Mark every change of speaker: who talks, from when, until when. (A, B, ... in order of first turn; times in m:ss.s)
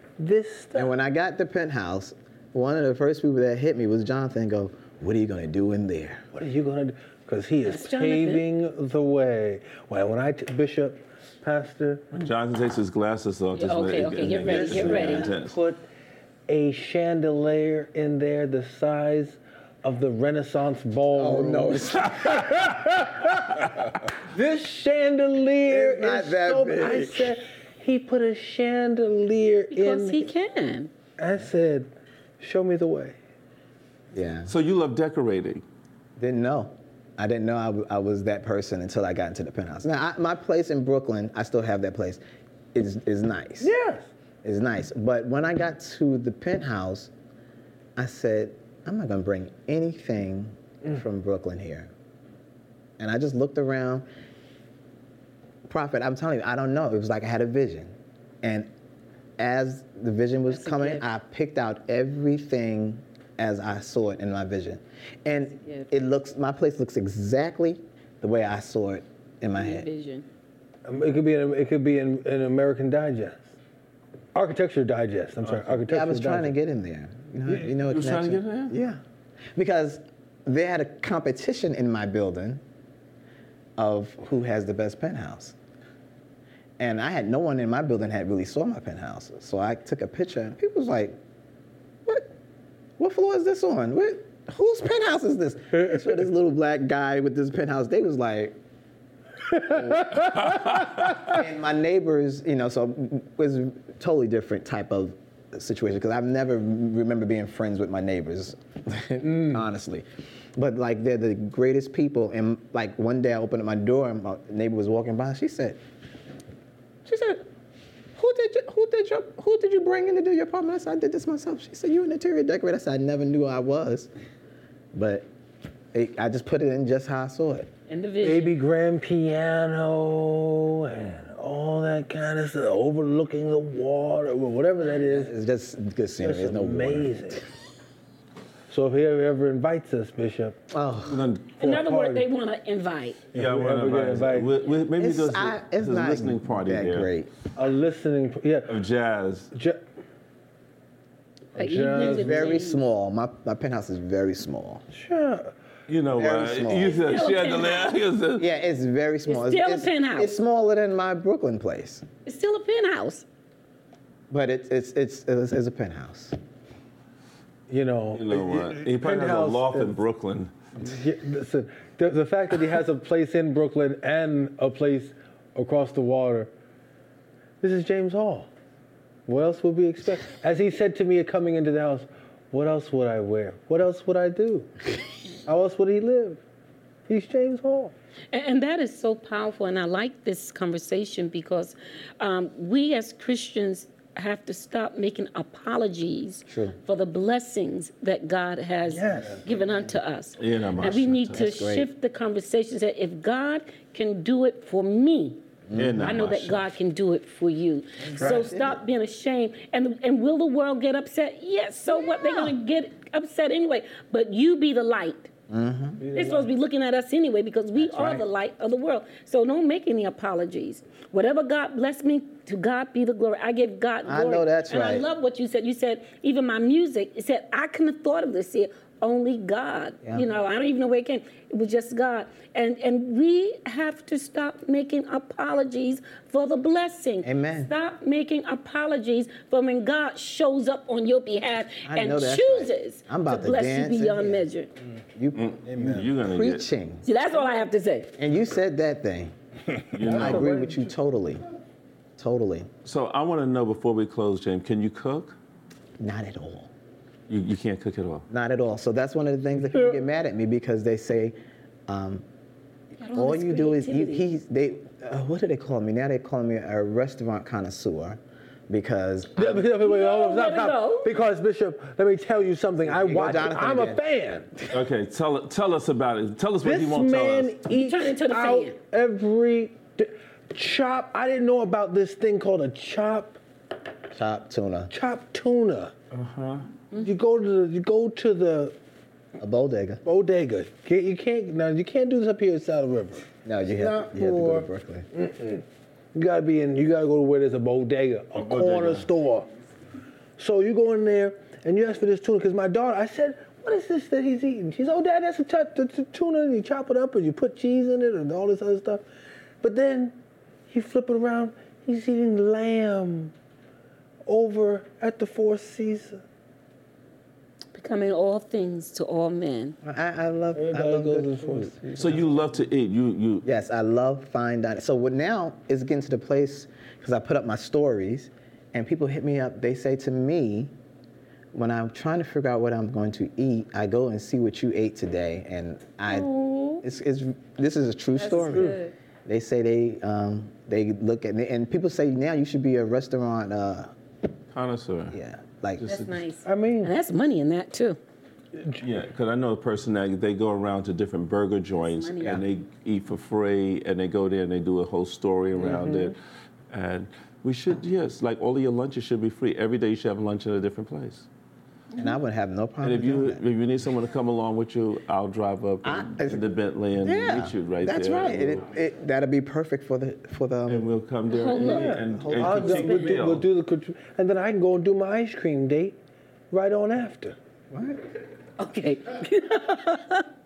0:00.2-0:00.9 A
0:00.7-0:06.3 B
0:06.3-0:12.1 A
0:07.7-0:08.4 C
0:12.1-0:15.6 D
0:13.6-0:15.3 C
0:14.2-0:15.8 A
0:16.5-0:30.3 A
0:21.1-0:22.6 B
0:25.7-0:27.4 B
0:29.7-0:30.9 C
0:31.2-0:33.2 A
0:34.1-0:34.5 B
0:34.5-0:35.6 D
0:36.2-0:42.2 B
0:42.7-0:43.7 B
0:43.6-0:44.0 A
0:44.4-0:47.1 B
0:48.0-0:51.9 B
0:53.0-0:54.1 B
0:55.7-0:58.7 B
0:59.4-1:09.9 B
1:00.5-1:01.1 C
1:05.5-1:05.9 C
1:09.6-1:10.3 C
1:10.8-1:13.5 A
1:14.4-1:16.6 A
1:15.4-1:15.7 D
1:15.8-1:19.0 B
1:17.5-1:18.8 D
1:19.6-1:22.6 B
1:23.8-1:25.6 B
1:26.8-1:31.2 B
1:33.0-1:38.6 B
1:39.5-1:41.2 A
1:39.7-1:40.0 B
1:40.5-1:40.9 D
1:41.3-1:55.8 B
1:49.2-1:49.6 A
1:57.0-1:57.5 B
1:58.2-2:04.1 B
2:04.9-2:05.3 B
2:05.9-2:07.7 B
2:07.9-2:08.5 C
2:08.2-2:15.3 A
2:14.9-2:17.4 B
2:16.2-2:17.5 A
2:18.7-2:20.6 A
2:20.7-2:21.3 B
2:21.0-2:21.6 D
2:21.6-2:22.3 A
2:21.6-2:23.2 C
2:23.3-2:24.5 A
2:23.3-2:27.1 D
2:25.0-2:27.3 B
2:27.6-2:28.7 A
2:28.7-2:29.5 D
2:29.5-2:29.8 A
2:31.6-2:32.5 A
2:31.6-2:32.8 C
2:32.0-2:34.8 B
2:34.9-2:35.5 A
2:35.9-2:38.5 D
2:36.1-2:37.0 B
2:36.8-2:38.0 C
2:38.4-2:42.1 B
2:39.3-2:40.3 C
2:42.3-2:43.2 C
2:44.3-2:46.4 B
2:47.7-2:50.0 A
2:48.1-2:50.5 D
2:50.8-2:56.5 A
2:57.6-2:58.5 A
2:59.3-3:04.8 A
3:05.5-3:06.4 A
3:07.1-3:07.9 A
3:08.3-3:25.4 C
3:16.5-3:16.8 B
3:18.9-3:19.4 A
3:20.4-3:21.6 D
3:21.3-3:21.9 B
3:25.7-3:26.2 B
3:25.8-3:26.7 D
3:26.0-3:35.3 C
3:28.0-3:28.8 B
3:35.5-3:36.1 B
3:36.0-3:36.5 A
3:36.1-4:04.7 C
3:37.8-3:38.3 B
3:44.0-3:45.1 B
3:57.2-3:57.7 B
4:01.8-4:04.5 B
4:05.2-4:07.1 B
4:05.4-4:06.7 D
4:07.0-4:08.1 C
4:08.2-4:09.3 B
4:09.9-4:10.5 D
4:10.0-4:10.9 A
4:10.0-4:11.4 B
4:12.2-4:12.7 B
4:12.8-4:15.4 D
4:16.0-4:16.7 B
4:17.3-4:18.3 D
4:18.3-4:21.4 B
4:21.9-4:22.2 B
4:23.0-4:24.3 C
4:23.1-4:29.7 B
4:29.4-4:34.5 A
4:29.8-4:31.1 C
4:32.8-4:34.0 B
4:34.7-4:37.6 D
4:36.6-4:43.4 A
4:37.7-4:38.8 C
4:44.1-4:44.9 B
4:44.9-4:45.9 A
4:46.1-4:46.7 D
4:47.0-4:48.8 A
4:49.4-4:50.0 B
4:50.0-4:59.5 A
4:53.4-4:55.1 B
4:58.4-4:59.1 D
5:00.4-5:09.0 A
5:09.6-5:10.2 A
5:10.7-5:13.3 A
5:14.3-5:16.2 A
5:17.7-5:19.8 C
5:19.8-5:22.3 B
5:20.6-5:22.2 A
5:22.0-5:23.5 D
5:23.4-5:30.7 B
5:31.5-5:38.8 B
5:36.1-5:36.8 C
5:38.2-5:38.9 C
5:38.4-5:38.8 A
5:39.3-5:43.9 B
5:44.5-5:45.2 D
5:45.1-5:45.9 B
5:45.8-5:46.2 D
5:45.9-5:48.0 C
5:46.4-5:47.0 A
5:48.6-5:48.8 A
5:48.8-5:56.2 D
5:51.9-5:52.4 C
5:55.6-5:56.2 A
5:56.7-6:01.3 D
6:02.0-6:03.4 B
6:02.8-6:08.7 D
6:05.8-6:06.5 B
6:07.0-6:10.9 B
6:10.7-6:13.5 D
6:11.3-6:11.9 C
6:11.6-6:16.0 A
6:11.6-6:12.9 B
6:16.5-6:17.4 A
6:17.7-6:18.0 B
6:18.6-6:20.2 C